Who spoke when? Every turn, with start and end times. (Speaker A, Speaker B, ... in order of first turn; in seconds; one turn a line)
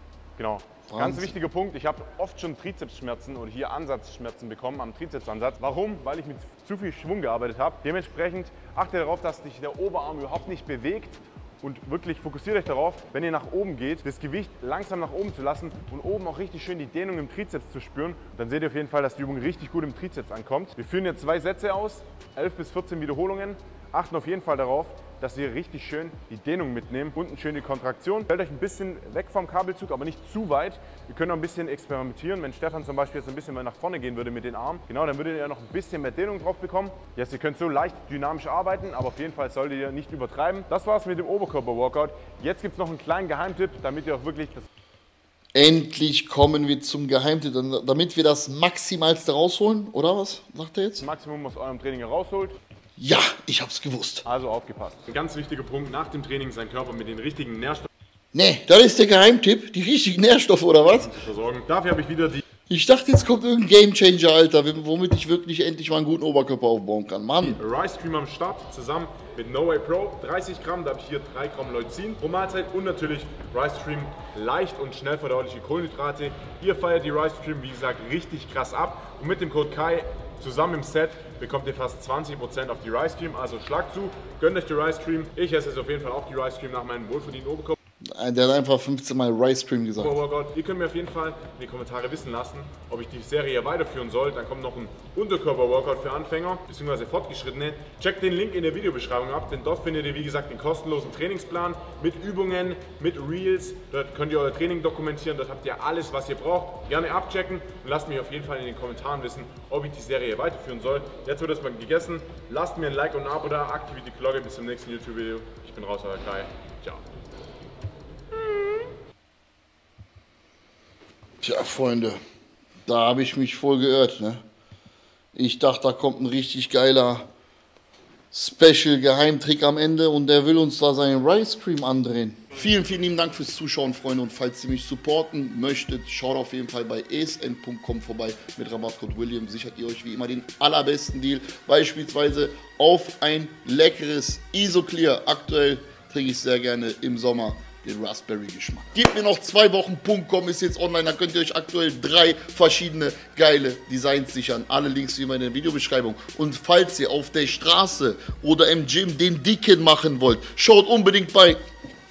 Speaker A: 0.4-44.7
Speaker B: 0.9-1.4
Speaker B: 45.5-51.0
Speaker A: 51.0-52.6
Speaker B: 53.0-54.3
Speaker A: 54.3-57.9
Speaker B: 58.3-61.1
Speaker A: 60.9-62.4
Speaker B: 62.7-67.6
Speaker A: 67.4-87.8
Speaker B: 88.1-90.2
Speaker A: 90.0-117.0
Speaker A: 118.4-118.8
Speaker B: 121.4-122.2
Speaker B: 122.9-124.4
Speaker B: 125.3-127.3
Speaker B: 128.3-161.6